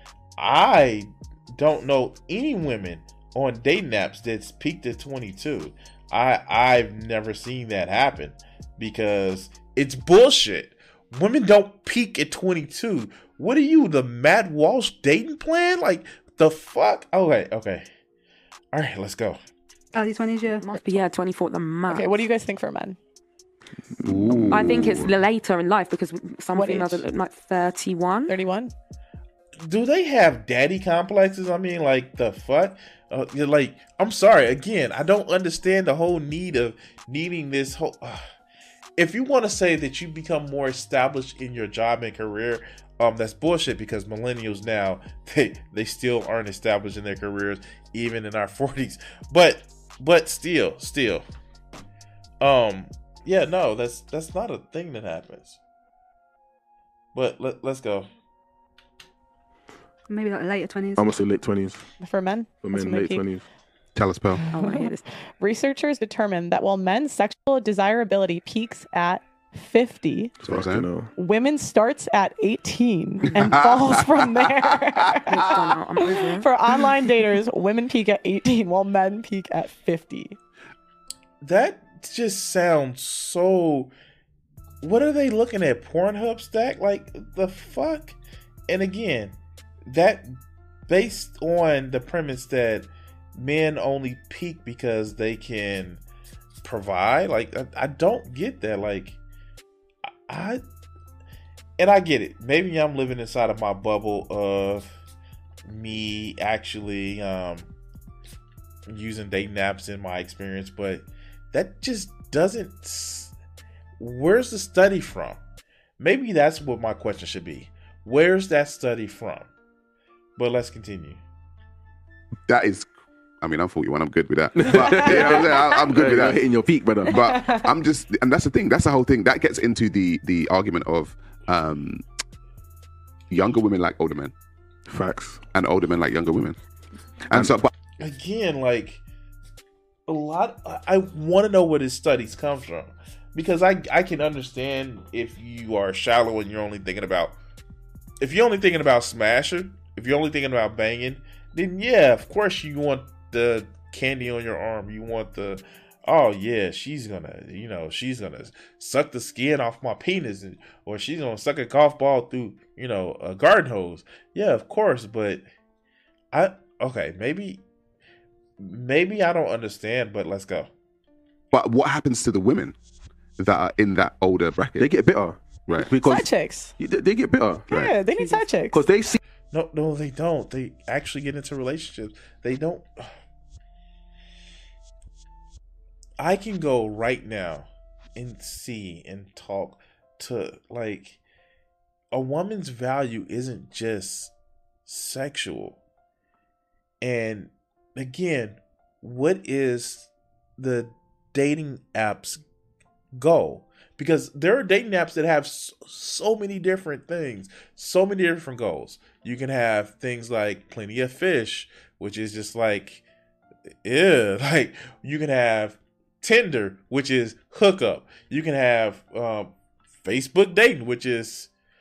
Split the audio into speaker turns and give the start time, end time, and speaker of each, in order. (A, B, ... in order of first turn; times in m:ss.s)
0:00.4-0:17.9 A
0:18.7-0:19.4 A
0:19.9-0:21.1 B
0:20.6-0:22.1 C
0:21.9-0:23.0 D
0:24.0-0:25.1 E
0:24.4-0:24.7 F
0:24.5-0:28.4 C
0:26.6-0:27.0 D
0:28.3-0:28.7 D
0:29.6-0:38.3 A
0:39.0-0:51.2 A
0:52.4-0:55.6 A
0:57.1-0:58.1 A
1:00.1-1:01.2 B
1:01.0-1:01.8 F
1:02.0-1:03.3 D
1:02.6-1:03.4 F
1:04.0-1:04.4 E
1:04.5-1:05.1 C
1:04.5-1:10.4 D
1:10.4-1:11.1 F
1:10.4-1:10.9 E
1:11.2-1:20.4 D
1:13.3-1:13.6 C
1:13.4-1:14.4 E
1:15.2-1:16.5 C
1:21.4-1:23.9 A
1:24.8-1:28.2 A
1:28.7-1:29.4 A
1:29.9-1:30.4 A
1:30.9-1:36.0 A
1:36.6-1:39.2 A
1:40.3-1:40.6 A
1:41.8-1:45.0 A
1:45.6-1:47.7 A
1:48.9-1:53.3 A
1:54.0-1:55.4 A
1:56.0-1:59.5 A
2:00.4-2:01.2 A
2:02.5-2:02.9 E
2:03.4-2:06.4 E
2:04.6-2:07.2 F
2:07.0-2:12.0 E
2:13.3-2:14.3 E
2:14.9-2:15.4 F
2:15.5-2:16.6 E
2:17.3-2:17.7 E
2:18.0-2:19.0 A
2:20.1-2:27.4 A
2:28.2-2:45.4 A
2:46.3-2:47.6 A
2:48.6-2:50.7 A
2:51.5-2:52.8 E
2:53.4-2:55.0 E
2:54.8-2:56.3 F
2:56.0-2:56.8 D
2:56.8-2:57.7 F
2:57.7-2:58.8 D
2:58.7-2:59.2 F
2:59.5-3:03.1 A
3:06.2-3:11.2 A
3:12.1-3:14.3 A
3:14.9-3:15.8 A
3:17.0-3:22.4 A
3:23.2-3:33.0 A
3:33.8-3:39.5 A
3:40.0-3:41.5 A